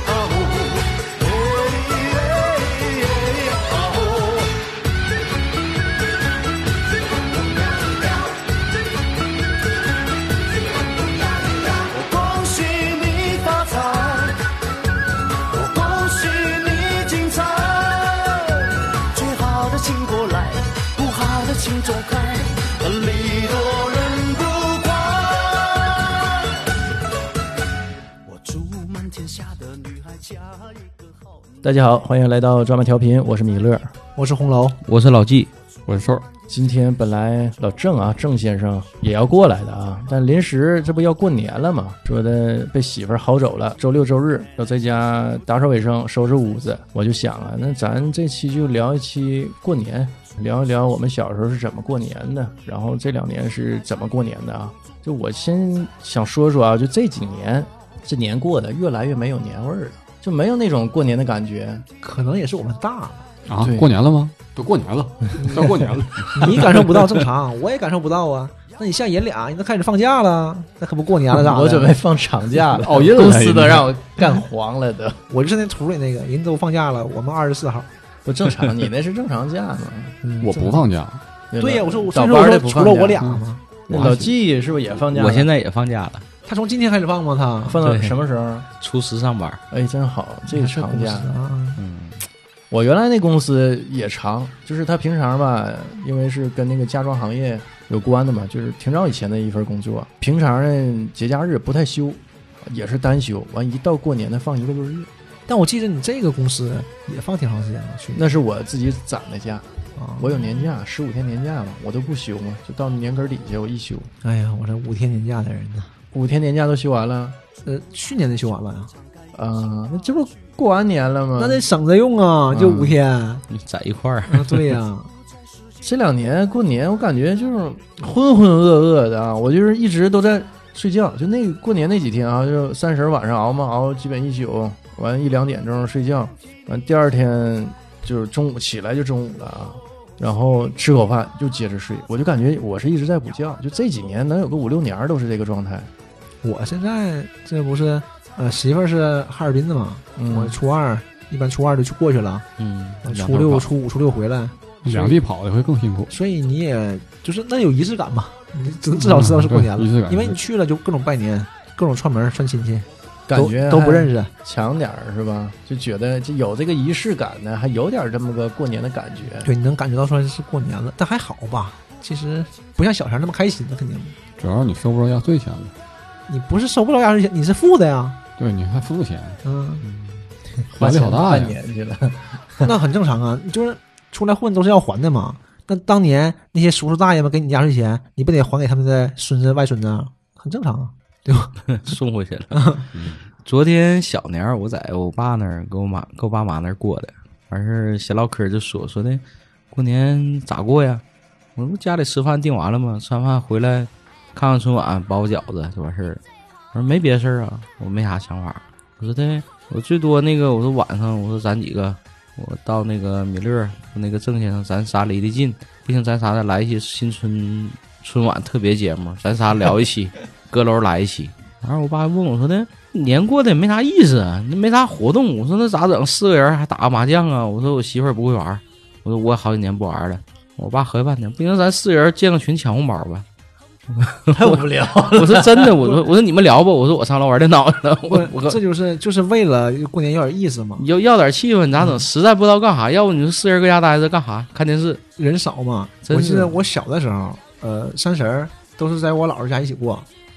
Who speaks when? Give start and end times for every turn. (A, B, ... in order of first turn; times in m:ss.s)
0:00.3-0:00.8 A
0:01.8-0:04.5 A
0:11.6-0:14.4 A
0:15.5-0:26.2 A
0:28.3-0:30.6 A
0:31.6-0:33.9 B
0:34.2-0:34.8 C
0:34.8-0:35.5 D
0:35.9-0:36.3 E
0:36.5-1:01.9 B
1:02.0-1:03.3 C
1:03.5-1:06.9 E
1:03.6-1:03.9 B
1:05.4-1:05.7 C
1:06.3-1:11.9 C
1:11.3-1:15.2 B
1:12.7-1:13.9 E
1:15.3-1:17.9 C
1:18.2-1:20.8 B
1:20.4-1:21.2 E
1:21.5-1:23.3 B
1:21.6-1:23.6 C
1:23.9-1:25.5 B
1:23.9-1:24.3 D
1:25.0-1:26.3 D
1:26.4-1:27.8 C
1:27.6-1:28.7 B
1:27.8-1:28.2 D
1:28.8-1:29.6 D
1:29.7-1:31.3 B
1:30.5-1:31.8 C
1:31.8-1:32.3 D
1:32.7-1:45.1 B
1:45.5-1:48.2 C
1:48.2-1:54.1 B
1:50.0-1:50.4 C
1:54.2-1:55.9 C
1:56.1-1:57.4 B
1:57.6-1:58.9 C
1:59.3-2:01.6 B
2:01.4-2:03.4 C
2:02.5-2:03.0 B
2:03.5-2:04.7 D
2:04.3-2:05.1 C
2:05.8-2:25.9 B
2:26.4-2:32.5 C
2:30.2-2:30.6 B
2:32.6-2:33.7 D
2:33.0-2:35.2 C
2:34.8-2:36.2 E
2:36.1-2:44.3 C
2:39.0-2:40.4 E
2:43.3-2:49.5 B
2:49.4-2:54.2 C
2:54.4-2:55.7 E
2:56.3-2:58.2 C
2:58.4-2:59.4 E
2:59.4-2:59.8 C
3:00.7-3:02.7 B
3:00.8-3:01.6 E
3:02.6-3:11.6 C
3:11.7-3:12.6 D
3:12.5-3:12.9 C
3:12.9-3:13.2 E
3:13.4-3:21.0 D
3:21.6-3:26.2 D
3:26.7-3:53.3 D
3:53.9-3:58.6 D
3:54.3-3:56.0 B
3:58.1-4:00.9 C
4:00.8-4:05.0 D
4:01.8-4:02.0 C
4:05.2-4:10.1 C
4:06.1-4:06.5 D